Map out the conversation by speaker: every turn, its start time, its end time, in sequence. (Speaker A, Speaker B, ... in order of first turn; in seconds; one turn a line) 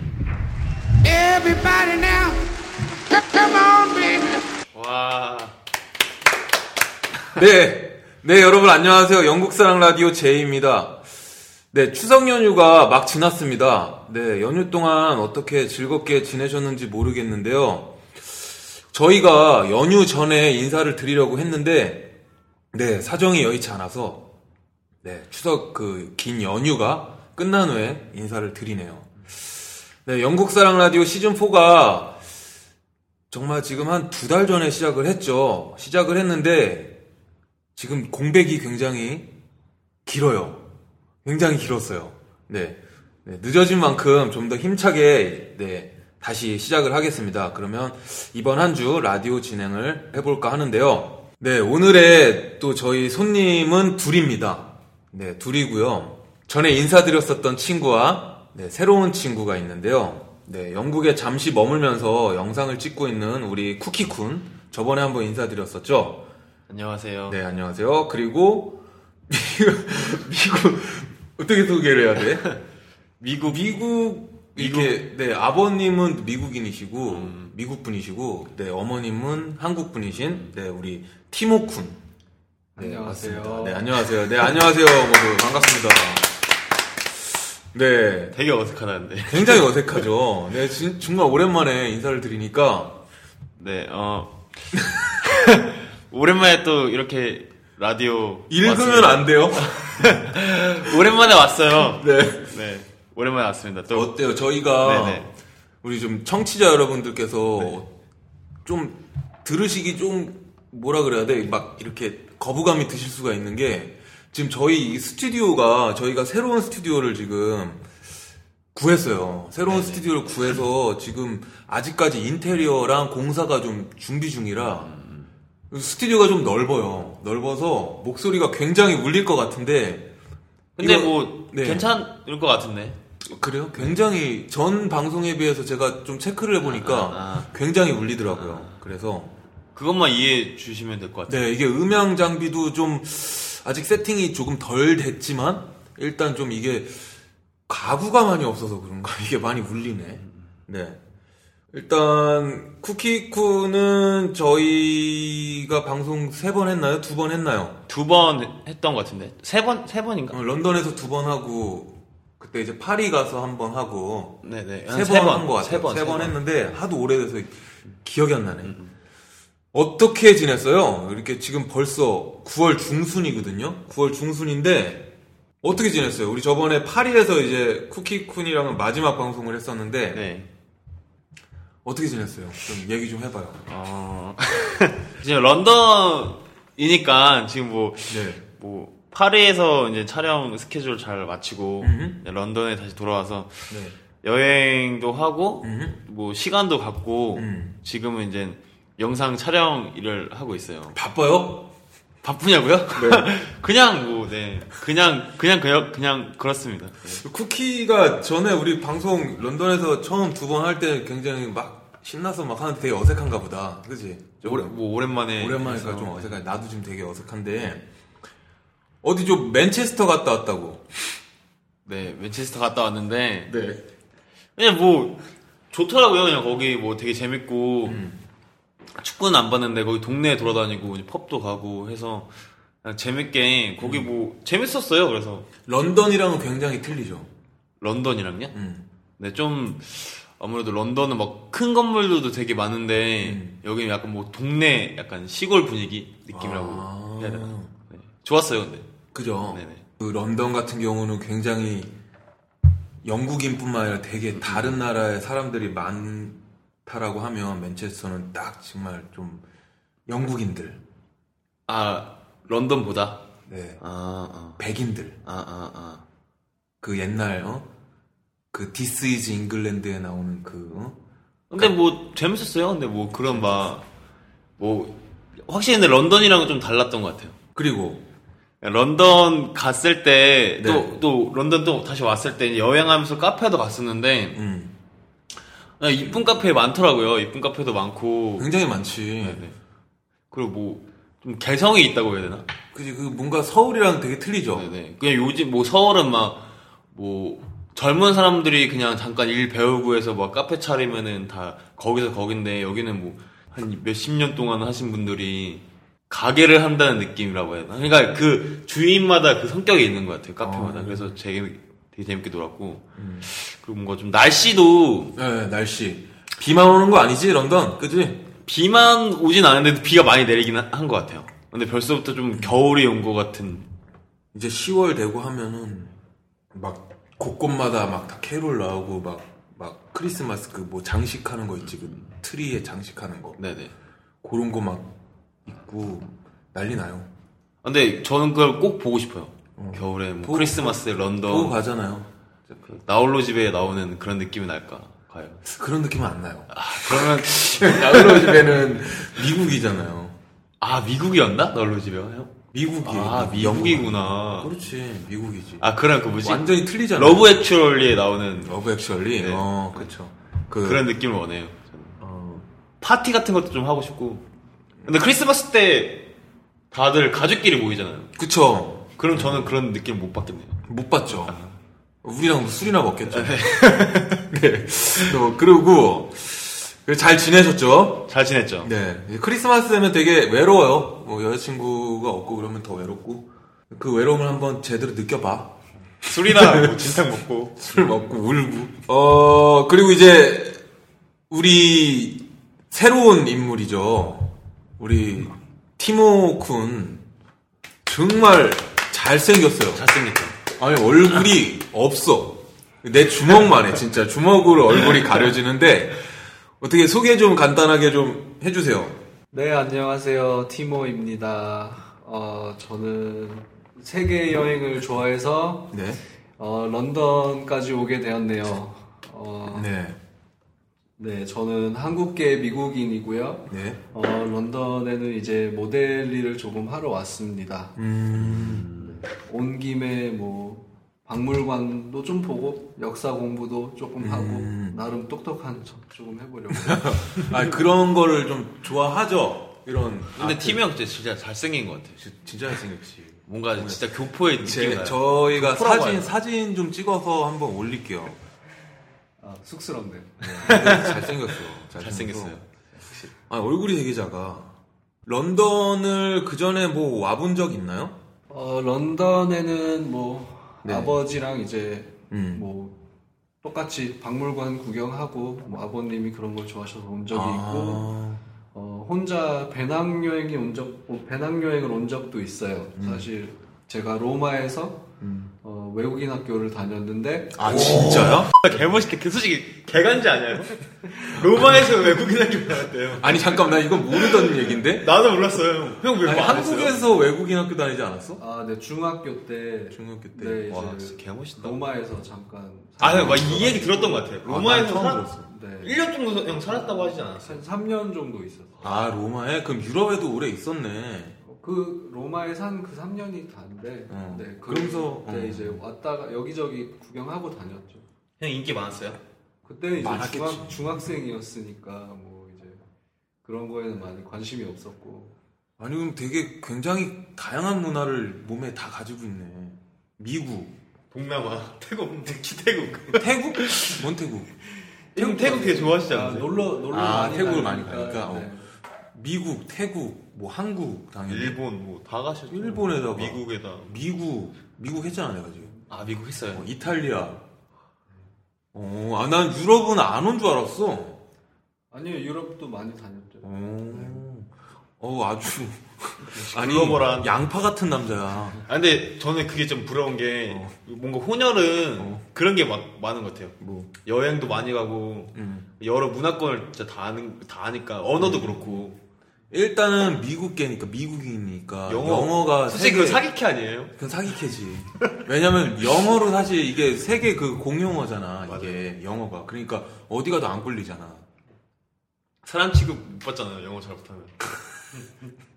Speaker A: 1.0-2.4
Speaker A: 3.2-4.4
Speaker B: 4.7-5.6
Speaker A: 7.3-11.0
Speaker A: 11.7-22.1
Speaker A: 22.7-24.3
Speaker A: 25.0-29.1
Speaker A: 30.0-32.2
Speaker A: 33.3-37.0
Speaker A: 37.8-39.3
Speaker A: 40.1-40.6
Speaker A: 41.2-66.3
Speaker B: 66.7-67.4
Speaker A: 67.3-72.5
Speaker B: 73.2-73.7
Speaker A: 73.5-82.0
Speaker B: 74.6-75.0
Speaker B: 77.1-77.5
Speaker C: 82.8-83.9
Speaker A: 82.8-86.3
Speaker A: 87.7-88.4
Speaker B: 88.3-90.0
Speaker A: 89.3-93.0
Speaker B: 93.6-104.2
Speaker A: 94.8-95.0
Speaker A: 98.5-100.2
Speaker A: 102.0-102.5
Speaker A: 103.9-105.3
Speaker B: 104.8-105.3
Speaker A: 105.8-107.9
Speaker A: 108.7-117.8
Speaker A: 118.8-124.9
Speaker B: 119.7-120.5
Speaker B: 124.8-125.3
Speaker A: 125.7-130.1
Speaker B: 130.8-133.0
Speaker A: 130.8-131.9
Speaker A: 133.3-139.3
Speaker B: 136.7-137.5
Speaker B: 138.3-138.8
Speaker B: 139.8-141.4
Speaker A: 141.3-147.1
Speaker A: 147.7-151.0
Speaker A: 151.7-157.8
Speaker B: 157.9-160.4
Speaker A: 160.3-168.8
Speaker B: 164.4-166.4
Speaker B: 168.7-168.9
Speaker A: 169.7-175.1
Speaker A: 175.6-180.3
Speaker B: 180.1-180.5
Speaker A: 181.8-183.7
Speaker B: 183.7-201.0
Speaker A: 188.1-188.4
Speaker A: 191.8-192.2
Speaker A: 193.7-194.0
Speaker A: 195.6-196.0
Speaker A: 197.3-197.8
Speaker A: 200.9-201.7
Speaker B: 202.2-207.2
Speaker A: 202.9-203.3
Speaker A: 207.2-214.7
Speaker B: 214.4-216.3
Speaker A: 215.4-217.9
Speaker A: 219.0-220.9
Speaker B: 221.9-223.5
Speaker A: 223.5-223.8
Speaker B: 224.6-225.2
Speaker B: 225.7-228.0
Speaker A: 227.9-228.2
Speaker B: 229.0-232.3
Speaker B: 232.8-235.5
Speaker A: 233.8-234.1
Speaker A: 235.7-237.3
Speaker B: 237.8-238.6
Speaker A: 238.5-238.9
Speaker B: 239.2-248.9
Speaker A: 243.2-243.6
Speaker A: 246.3-247.7
Speaker A: 249.1-251.9
Speaker B: 249.5-249.8
Speaker A: 253.0-259.4
Speaker B: 254.3-254.8
Speaker A: 260.1-260.8
Speaker B: 261.7-263.2
Speaker A: 263.5-263.8
Speaker B: 263.8-264.6
Speaker A: 264.6-265.2
Speaker B: 265.2-266.0
Speaker A: 266.8-267.7
Speaker A: 268.5-271.0
Speaker B: 271.5-273.8
Speaker B: 274.6-277.4
Speaker A: 277.6-278.0
Speaker B: 278.6-284.4
Speaker A: 280.6-281.0
Speaker A: 284.4-284.8
Speaker B: 285.8-288.5
Speaker A: 288.4-289.4
Speaker B: 289.2-289.6
Speaker B: 290.3-292.5
Speaker A: 292.7-294.7
Speaker B: 294.5-315.2
Speaker A: 310.4-311.1
Speaker A: 313.0-313.3
Speaker A: 315.2-318.2
Speaker B: 318.4-323.7
Speaker A: 324.3-326.0
Speaker A: 326.5-333.4
Speaker B: 333.4-333.7
Speaker A: 334.2-334.9
Speaker A: 335.5-337.1
Speaker B: 337.6-341.6
Speaker A: 339.6-342.1
Speaker B: 342.5-345.4
Speaker A: 345.5-350.1
Speaker B: 346.5-348.6
Speaker B: 350.6-354.6
Speaker A: 352.5-355.6
Speaker B: 355.6-358.6
Speaker A: 356.2-357.5
Speaker A: 358.5-360.9
Speaker B: 359.2-359.9
Speaker B: 360.6-362.0
Speaker A: 362.0-362.4
Speaker B: 362.8-364.2
Speaker B: 364.9-366.1
Speaker B: 366.7-368.1
Speaker A: 368.2-369.5
Speaker B: 369.0-370.6
Speaker A: 370.7-371.4
Speaker B: 371.1-371.5
Speaker A: 372.0-373.6
Speaker B: 373.1-374.3
Speaker A: 374.3-378.1
Speaker B: 378.1-378.7
Speaker A: 378.6-387.0
Speaker B: 386.0-387.6
Speaker A: 387.6-390.6
Speaker A: 391.3-397.0
Speaker A: 397.9-399.9
Speaker B: 399.7-400.4
Speaker A: 400.5-406.1
Speaker A: 406.6-409.0
Speaker C: 409.3-415.8
Speaker A: 415.7-416.0
Speaker C: 416.4-419.7
Speaker A: 419.5-420.0
Speaker C: 421.0-427.8
Speaker A: 423.5-423.8
Speaker A: 427.8-428.8
Speaker B: 428.2-429.0
Speaker C: 428.8-437.3
Speaker A: 434.0-434.8
Speaker A: 436.5-440.6
Speaker B: 440.2-442.0
Speaker A: 442.0-443.8
Speaker B: 443.3-446.1
Speaker A: 444.4-448.2
Speaker C: 449.2-450.6
Speaker A: 450.4-452.4
Speaker B: 450.4-453.1
Speaker A: 453.3-457.9
Speaker C: 458.3-462.8
Speaker A: 460.6-461.0
Speaker A: 462.1-462.4
Speaker C: 463.4-467.9
Speaker A: 467.1-468.2
Speaker C: 468.5-474.9
Speaker A: 472.8-473.1
Speaker A: 475.0-475.3
Speaker C: 475.4-478.2
Speaker A: 477.4-478.3
Speaker B: 477.4-486.9
Speaker A: 483.0-484.9
Speaker A: 486.0-488.2
Speaker C: 488.2-494.1
Speaker A: 489.7-490.4
Speaker B: 490.5-491.6
Speaker A: 492.8-493.6
Speaker B: 492.8-495.1
Speaker A: 494.2-495.3
Speaker C: 495.3-495.8
Speaker B: 495.6-497.4
Speaker C: 496.5-498.7
Speaker A: 498.6-501.2
Speaker C: 501.2-507.8
Speaker A: 503.9-505.6
Speaker B: 508.2-509.0
Speaker C: 509.4-512.6
Speaker A: 509.8-510.7
Speaker C: 513.2-515.1
Speaker A: 515.6-520.5
Speaker B: 520.9-523.8
Speaker A: 522.9-524.4
Speaker B: 525.0-526.3
Speaker C: 525.0-528.5
Speaker A: 526.7-528.3
Speaker A: 528.9-531.4
Speaker B: 531.1-533.7
Speaker A: 532.3-535.5
Speaker B: 535.7-536.5
Speaker A: 536.3-537.2
Speaker A: 538.5-541.0
Speaker C: 541.7-544.0
Speaker A: 543.2-548.4
Speaker B: 546.1-547.1
Speaker B: 548.5-558.8
Speaker A: 550.3-550.5
Speaker A: 553.4-553.8
Speaker A: 555.1-555.5
Speaker A: 558.0-558.7
Speaker A: 559.3-563.1
Speaker B: 561.7-563.8
Speaker A: 563.8-571.1
Speaker B: 568.3-568.5
Speaker B: 572.2-574.9